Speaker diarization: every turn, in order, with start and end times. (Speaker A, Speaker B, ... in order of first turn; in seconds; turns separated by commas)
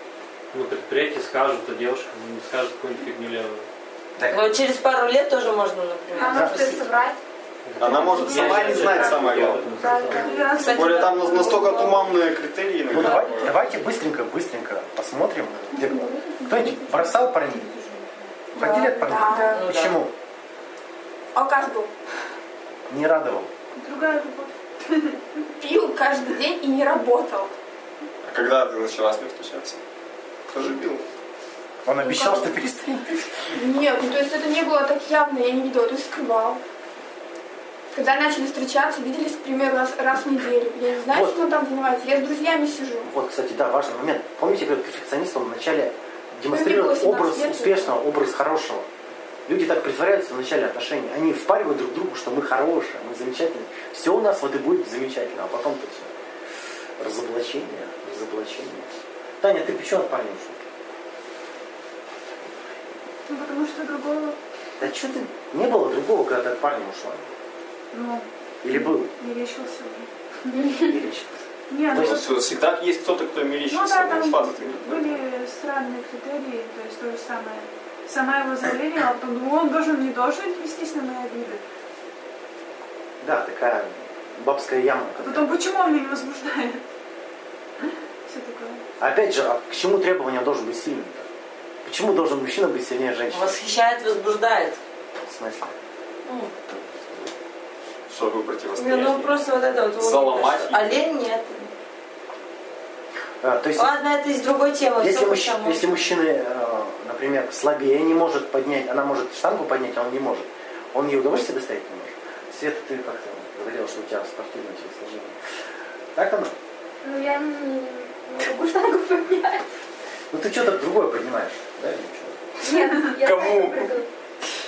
Speaker A: 0.5-3.6, Speaker B: 4.2-4.4, Speaker C: 4.3-6.8, Speaker D: 6.2-7.2, Speaker B: 6.3-6.6, Speaker A: 7.7-10.5, Speaker E: 7.8-9.8, Speaker D: 7.9-10.7, Speaker F: 10.1-12.1, Speaker E: 10.6-13.5, Speaker C: 10.6-11.3, Speaker B: 12.9-17.7, Speaker F: 15.9-18.3, Speaker G: 18.5-19.8, Speaker B: 18.5-20.1, Speaker C: 19.4-20.0, Speaker G: 21.3-21.9, Speaker B: 22.9-23.5, Speaker F: 23.8-25.2, Speaker G: 25.6-27.5, Speaker E: 28.2-29.8, Speaker E: 30.5-31.0, Speaker B: 31.8-33.2, Speaker G: 32.0-32.6, Speaker G: 33.5-36.6, Speaker G: 37.9-43.1, Speaker B: 41.1-41.4, Speaker B: 43.0-48.9, Speaker G: 46.5-48.0, Speaker B: 49.5-56.1, Speaker B: 57.0-58.9, Speaker B: 59.4-60.6, Speaker F: 63.3-64.4, Speaker B: 64.8-67.3, Speaker F: 67.9-70.1, Speaker B: 68.6-69.1, Speaker B: 70.8-72.2, Speaker F: 71.7-72.4, Speaker E: 71.9-75.2, Speaker F: 73.7-81.6, Speaker B: 83.2-85.5, Speaker F: 85.2-86.8, Speaker F: 87.8-88.8, Speaker B: 89.0-91.3, Speaker B: 91.8-93.6, Speaker C: 93.3-94.8, Speaker B: 95.2-95.7, Speaker C: 96.2-96.6, Speaker E: 98.1-99.3, Speaker C: 98.8-101.7, Speaker E: 100.0-101.0, Speaker B: 103.4-104.0, Speaker C: 103.7-106.1, Speaker B: 105.0-115.4, Speaker B: 116.1-116.5, Speaker D: 117.0-119.6, Speaker B: 120.3-122.5, Speaker D: 122.6-124.1, Speaker E: 123.2-123.9